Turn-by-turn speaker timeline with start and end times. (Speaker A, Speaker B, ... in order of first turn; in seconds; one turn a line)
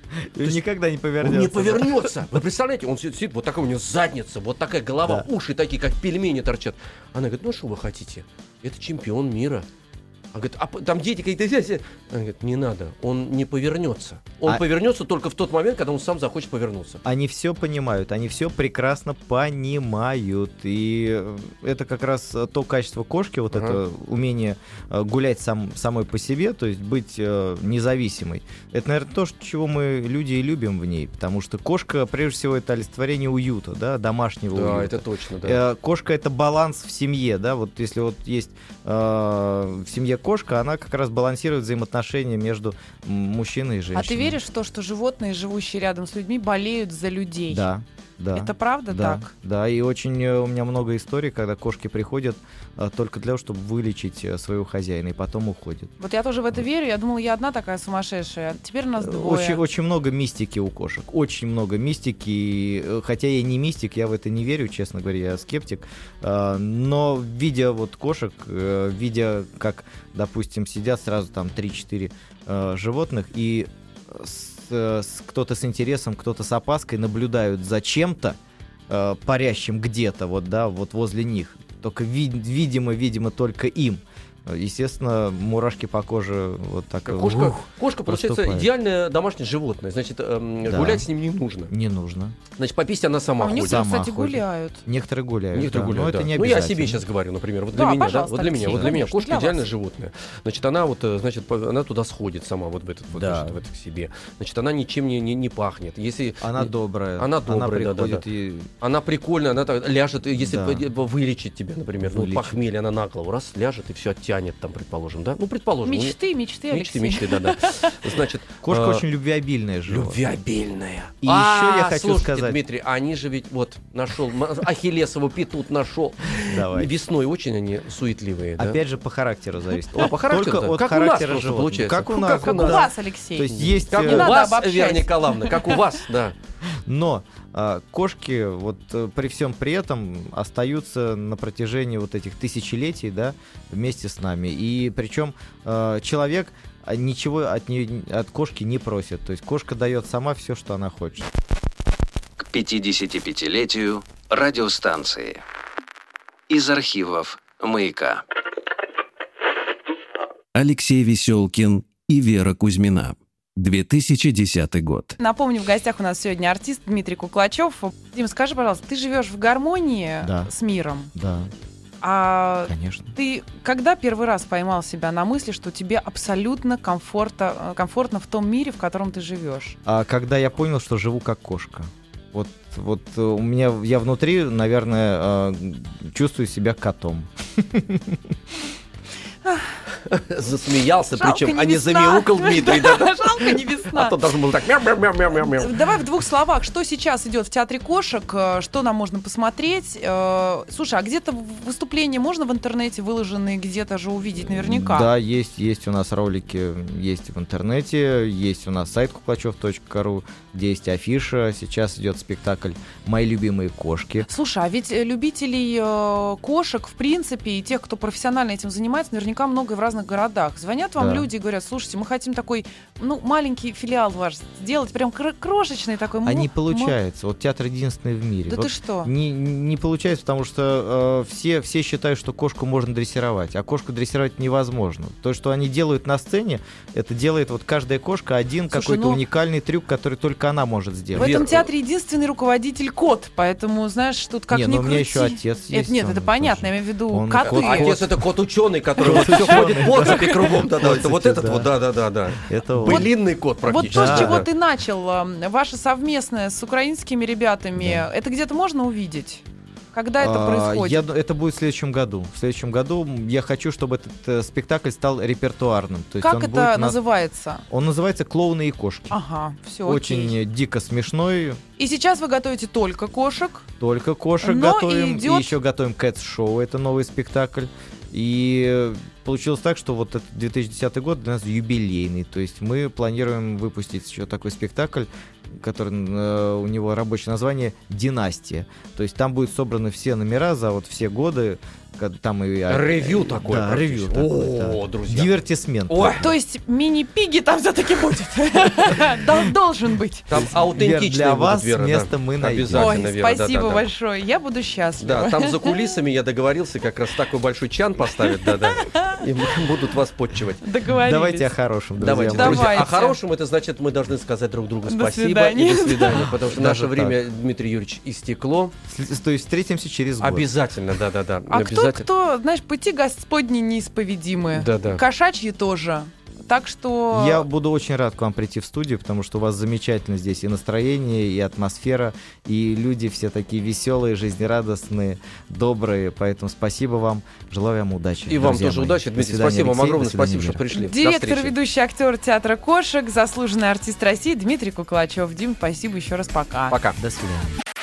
Speaker A: 0.3-2.1
Speaker B: 1.2-9.6
Speaker B: 10.3-17.0
Speaker A: 17.0-44.4
Speaker B: 23.5-23.8
Speaker B: 34.5-35.6
Speaker C: 43.9-47.7
Speaker A: 47.5-55.9
Speaker C: 48.3-49.3
Speaker C: 56.0-59.6
Speaker A: 59.0-78.4
Speaker A: 78.9-88.7
Speaker B: 87.0-91.7
Speaker A: 90.6-91.1
Speaker A: 91.7-92.4
Speaker B: 92.5-93.8
Speaker C: 93.4-94.8
Speaker A: 93.5-97.0
Speaker B: 95.5-108.2
Speaker C: 97.7-99.7
Speaker A: 103.1-103.6
Speaker A: 106.4-108.7
Speaker B: 108.8-116.2
Speaker A: 110.4-110.8
Speaker A: 112.0-112.6
Speaker C: 115.8-118.0
Speaker B: 116.7-119.0
Speaker A: 118.6-120.2
Speaker B: 119.9-128.8
Speaker A: 121.2-122.6
Speaker A: 126.5-126.9
Speaker A: 128.6-134.3
Speaker B: 129.9-132.9
Speaker C: 132.4-135.8
Speaker B: 133.5-136.3
Speaker A: 136.9-151.3
Speaker D: 152.4-155.4
Speaker D: 156.5-158.2
Speaker E: 160.5-165.2
Speaker C: 165.2-171.1
Speaker A: 170.2-170.5
Speaker A: 171.1-171.5
Speaker C: 172.0-179.8
Speaker A: 172.7-173.1
Speaker A: 179.8-188.2
Speaker C: 189.4-189.7
Speaker B: 190.0-195.8
Speaker C: 191.2-194.2
Speaker C: 195.6-205.1
Speaker A: 204.4-214.3
Speaker C: 214.2-226.9
Speaker A: 221.0-221.3
Speaker A: 226.2-241.4
Speaker C: 228.5-229.1
Speaker C: 238.7-239.2
Speaker B: 241.1-241.7
Speaker C: 241.1-247.9
Speaker A: 244.5-248.2
Speaker B: 247.4-254.5
Speaker C: 249.0-250.5
Speaker A: 249.0-251.7
Speaker A: 252.4-253.1
Speaker C: 252.8-261.0
Speaker A: 253.8-254.4
Speaker A: 257.8-258.1
Speaker A: 260.2-267.0
Speaker C: 266.2-267.6
Speaker A: 267.7-269.1
Speaker C: 269.1-270.3
Speaker A: 269.8-271.6
Speaker C: 271.8-273.6
Speaker A: 273.8-296.3
Speaker C: 274.4-275.6
Speaker B: 292.7-296.2
Speaker C: 296.1-300.4
Speaker B: 300.3-303.9
Speaker A: 300.3-303.0
Speaker C: 302.7-305.7
Speaker B: 305.0-310.6
Speaker C: 308.3-309.2
Speaker C: 310.6-311.5
Speaker A: 310.9-312.9
Speaker B: 312.0-318.7
Speaker C: 312.1-313.2
Speaker C: 314.9-316.3
Speaker A: 316.5-317.2
Speaker A: 318.9-320.5
Speaker B: 320.2-322.1
Speaker C: 321.5-327.5
Speaker B: 324.5-325.0
Speaker A: 327.1-340.6
Speaker B: 338.3-341.5
Speaker C: 340.7-346.8
Speaker B: 346.7-347.0
Speaker A: 347.0-347.5